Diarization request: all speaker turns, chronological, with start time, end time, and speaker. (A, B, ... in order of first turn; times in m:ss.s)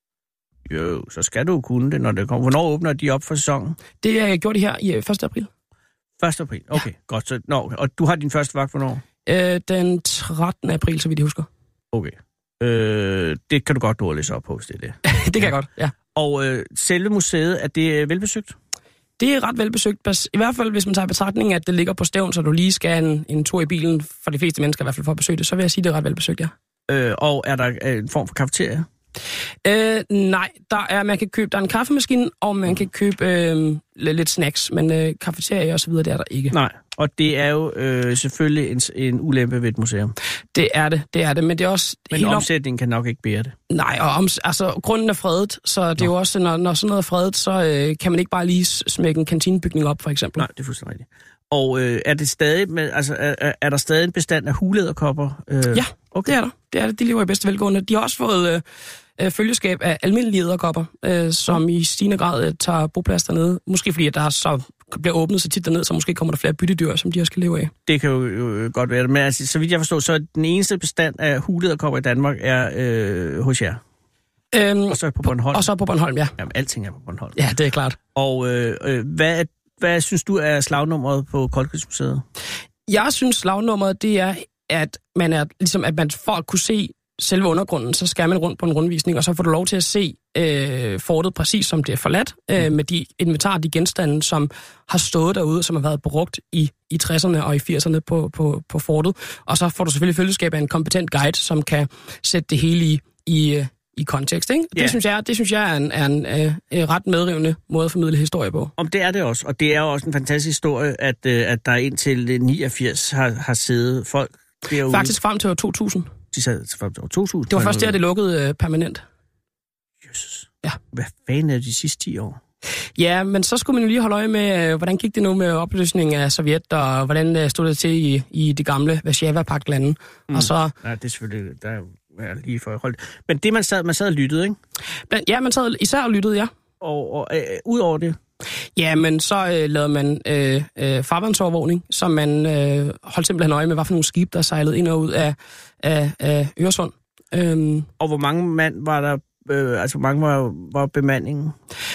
0:00.7-0:03.8 A
0:04.0-0:05.5 B
0:06.2-0:09.0 A
0:09.2-0:11.5 B
0:11.9-0:15.5 A
0:15.0-0:15.9 B
0:16.1-0:18.5 A
0:19.2-0:26.5 B
0:26.9-0:28.8 A
0:29.6-0:36.5 B
0:36.5-0:40.1 A
0:40.5-0:42.5 B
0:42.1-0:43.5 A
0:43.7-0:50.4 B
0:50.4-0:56.3 A
0:55.7-0:58.6 B
0:59.2-1:07.7 B
1:07.8-1:13.8 A
1:14.5-1:16.3 B
1:14.9-1:15.7 A
1:16.4-1:17.4 A
1:17.4-1:18.0 B
1:18.1-1:22.2 A
1:22.9-1:48.7 B
1:48.8-1:55.1 A
1:54.8-1:56.1 B
1:56.3-1:58.0 A
1:57.5-1:59.0 B
2:00.0-2:02.4 A
2:03.0-2:10.7 B
2:10.3-2:14.6 A
2:15.1-2:16.5 B
2:16.8-2:18.2 A
2:18.8-2:27.9 B
2:28.0-2:31.5 A